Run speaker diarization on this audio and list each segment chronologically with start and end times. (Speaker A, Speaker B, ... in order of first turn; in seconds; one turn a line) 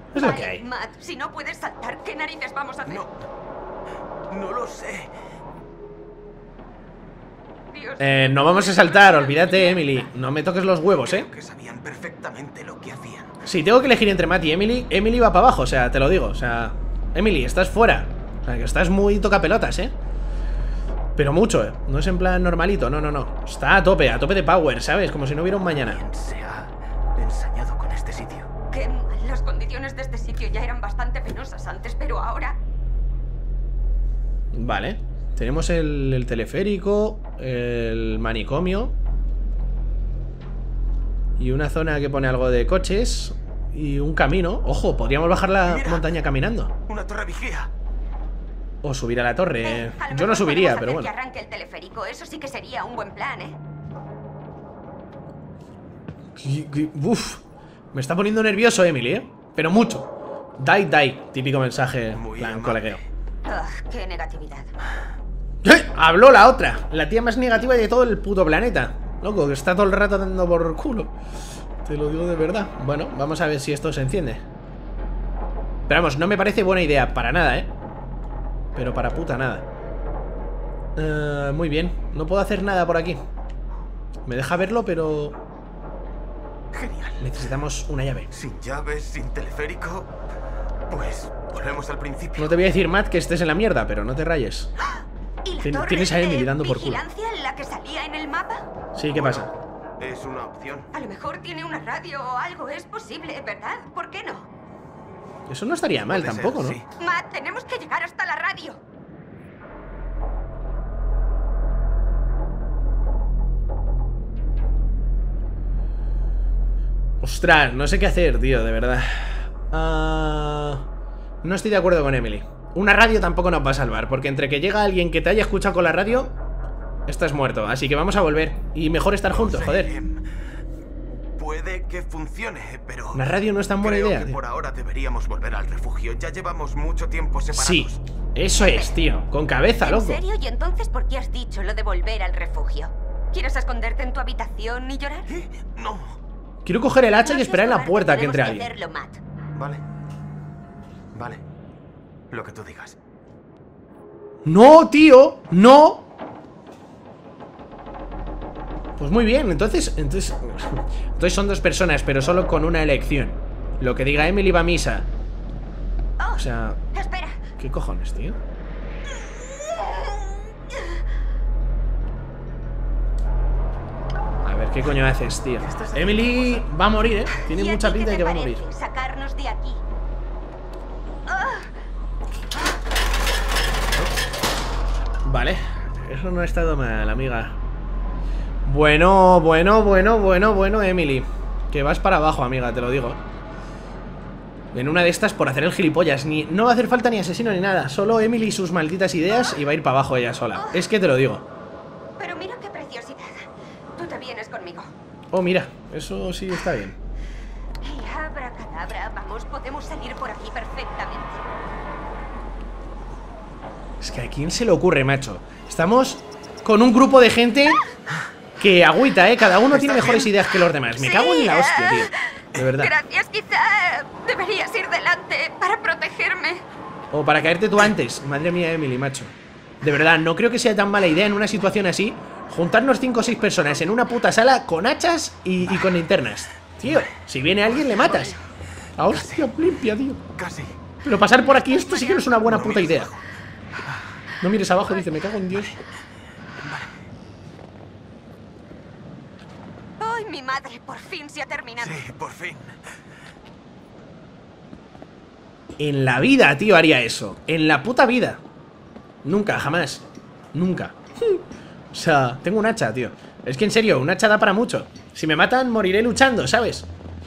Speaker A: 0.1-0.6
Speaker B: 0.1-3.0
Speaker C: 2.9-3.2
Speaker C: 4.3-5.1
Speaker B: 7.7-10.1
Speaker A: 8.0-11.3
Speaker C: 11.0-13.3
Speaker A: 13.4-20.0
Speaker A: 21.2-26.0
Speaker C: 25.8-28.5
Speaker B: 28.7-32.6
Speaker A: 34.5-39.0
Speaker A: 41.4-46.7
Speaker C: 45.7-46.1
Speaker C: 46.9-47.7
Speaker A: 48.8-51.1
Speaker B: 49.6-53.6
Speaker A: 56.4-63.0
Speaker C: 62.1-63.0
Speaker B: 63.5-64.7
Speaker A: 65.6-71.1
Speaker A: 71.8-74.4
Speaker A: 75.9-77.7
Speaker A: 78.8-79.7
Speaker A: 81.0-83.2
Speaker A: 84.3-85.4
Speaker C: 86.7-87.3
Speaker A: 87.2-88.3
Speaker C: 88.3-90.1
Speaker C: 90.9-92.6
Speaker A: 92.4-94.7
Speaker B: 95.5-98.7
Speaker A: 95.6-97.0
Speaker A: 98.9-99.5
Speaker C: 99.1-100.9
Speaker B: 100.9-104.5
Speaker A: 105.5-106.8
Speaker C: 106.1-106.9
Speaker B: 107.0-108.8
Speaker A: 117.2-120.9
Speaker A: 121.4-126.4
Speaker A: 127.1-129.9
Speaker C: 129.3-130.2
Speaker C: 131.4-133.3
Speaker A: 133.1-134.4
Speaker C: 133.8-138.0
Speaker A: 137.5-140.2
Speaker B: 138.5-138.9
Speaker B: 139.8-145.3
Speaker C: 145.3-146.2
Speaker A: 146.7-148.7
Speaker B: 147.2-149.2
Speaker C: 149.6-149.8
Speaker C: 151.1-151.4
Speaker C: 152.3-153.0
Speaker A: 154.4-156.1
Speaker A: 159.0-165.1
Speaker B: 166.2-167.4
Speaker A: 166.3-166.8
Speaker A: 167.6-168.4
Speaker B: 169.2-171.0
Speaker A: 174.4-178.6
Speaker C: 175.6-176.7
Speaker B: 177.5-179.8
Speaker B: 181.3-181.7
Speaker C: 183.9-184.2
Speaker A: 185.2-187.6
Speaker A: 188.7-193.2
Speaker A: 194.7-201.5
Speaker B: 199.3-199.6
Speaker B: 200.6-200.8
Speaker B: 202.2-204.9
Speaker A: 205.3-207.0
Speaker B: 207.8-211.4
Speaker A: 214.0-217.8
Speaker A: 218.6-222.9
Speaker C: 219.7-220.3
Speaker B: 221.0-226.6
Speaker A: 227.1-238.4
Speaker C: 237.7-238.4
Speaker A: 239.0-240.2
Speaker C: 239.0-239.5
Speaker C: 240.4-240.8
Speaker A: 241.0-243.1
Speaker B: 241.4-242.5
Speaker C: 242.4-243.2
Speaker A: 244.4-245.8
Speaker C: 246.6-246.9
Speaker B: 250.0-252.0
Speaker C: 251.8-252.8
Speaker A: 255.8-258.4
Speaker A: 259.2-266.9